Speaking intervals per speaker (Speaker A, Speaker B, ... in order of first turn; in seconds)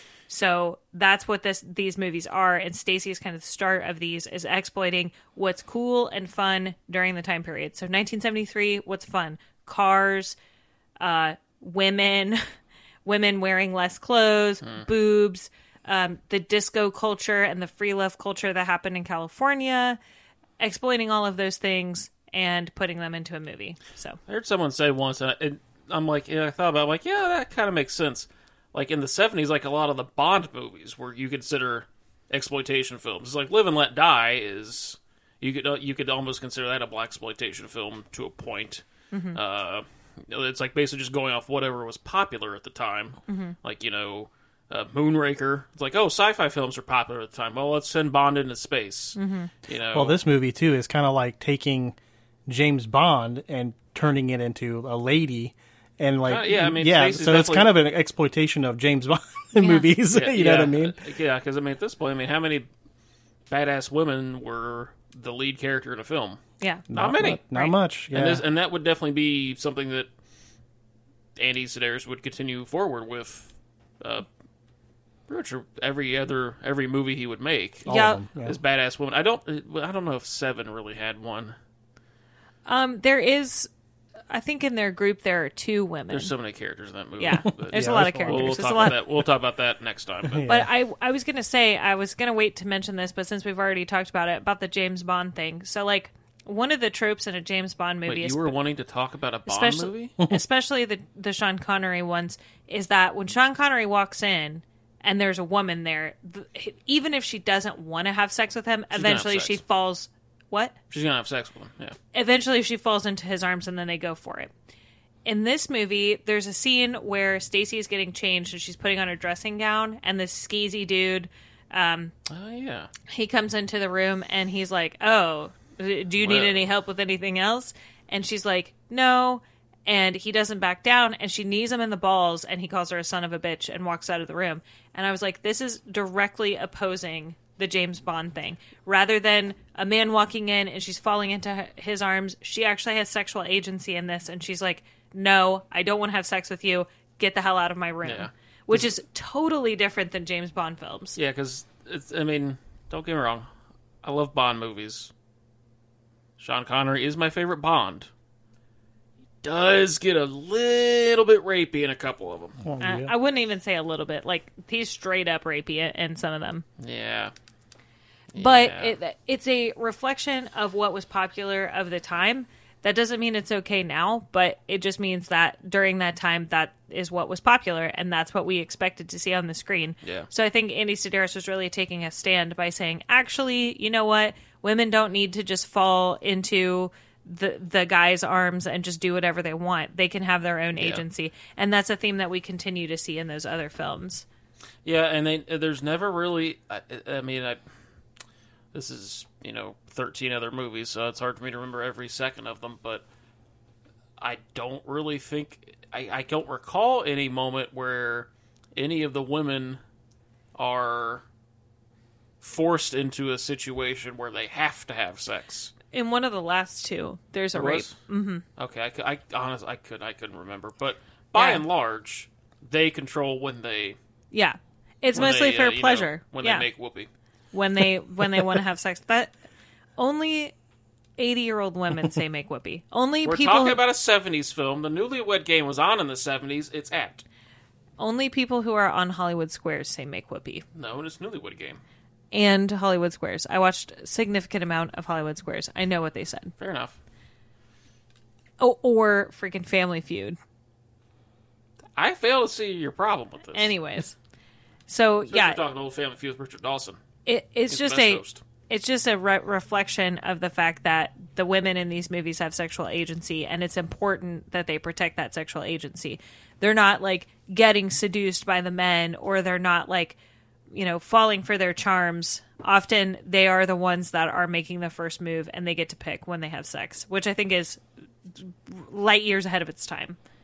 Speaker A: 0.3-10.4, 11.0-12.4, 13.1-20.0, 20.6-24.2, 39.1-39.4, 43.3-43.6, 49.2-49.5, 59.6-59.9, 66.6-66.9, 77.9-78.2, 82.7-83.7, 84.3-86.3, 87.2-89.0, 90.5-98.6, 99.5-110.7, 112.1-114.5, 115.3-122.1, 123.1-151.2, 162.8-166.7, 168.4-194.2, 215.9-218.4, 221.3-221.6, 224.3-226.7, 227.5-229.3, 230.0-230.5, 231.2-233.8, 238.0-240.6, 242.3-246.5, 248.6-250.4, 253.5-254.2, 254.9-255.6, 257.3-270.2, 270.7-277.8, 278.4-280.2
Speaker B: 24.3-50.2, 56.2-57.7, 60.1-62.7, 63.5-66.4, 66.9-67.5, 68.1-70.1, 71.4-74.3, 75.3-81.5, 86.1-90.5, 98.1-100.2, 108.9-109.6, 110.9-112.0, 122.3-122.9, 126.2-126.7, 148.0-148.3, 151.2-153.5, 154.0-155.1, 156.4-158.1, 159.4-162.6, 166.8-167.3, 168.3-168.9, 180.0-180.3, 190.8-191.0, 194.8-197.6, 198.7-203.1, 204.2-209.8, 210.6-211.2, 212.4-215.7, 217.6-217.9, 218.6-224.0, 225.1-227.1, 233.2-237.2, 240.8-241.8, 246.6-247.0, 252.0-253.7, 255.3-257.0, 257.7-258.4
Speaker C: 49.9-52.0, 52.5-61.0, 66.9-68.4, 77.9-78.6, 87.7-89.0, 90.3-90.7, 162.6-163.1